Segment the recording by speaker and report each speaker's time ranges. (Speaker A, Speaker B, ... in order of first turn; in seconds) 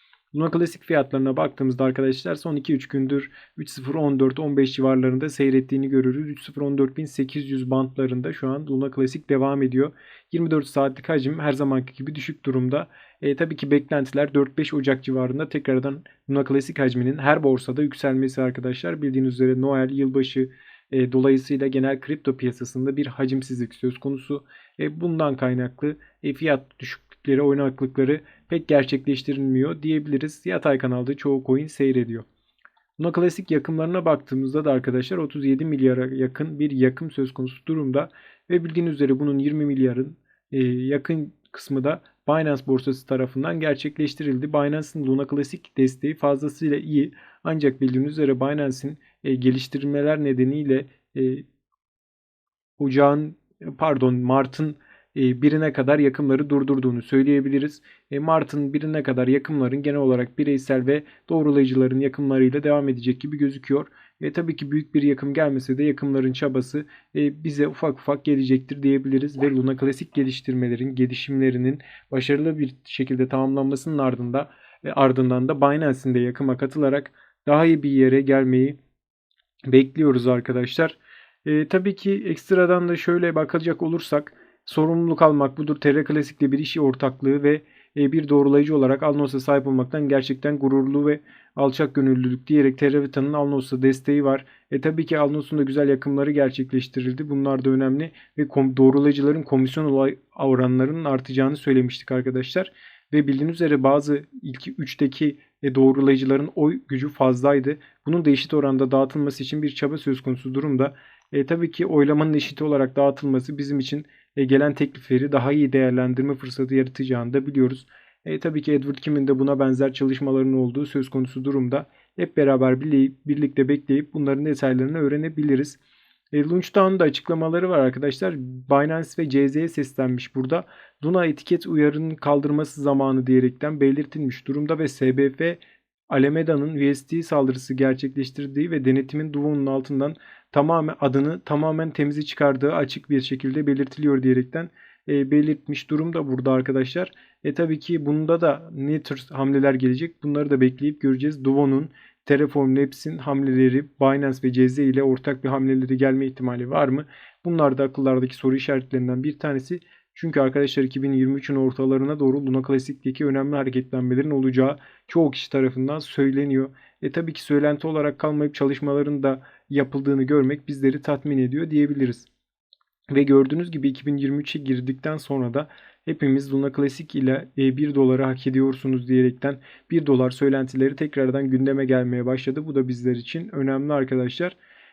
Speaker A: 0.3-32.3, 33.0-51.5, 52.8-78.8, 79.7-125.8, 126.3-172.3, 173.1-184.6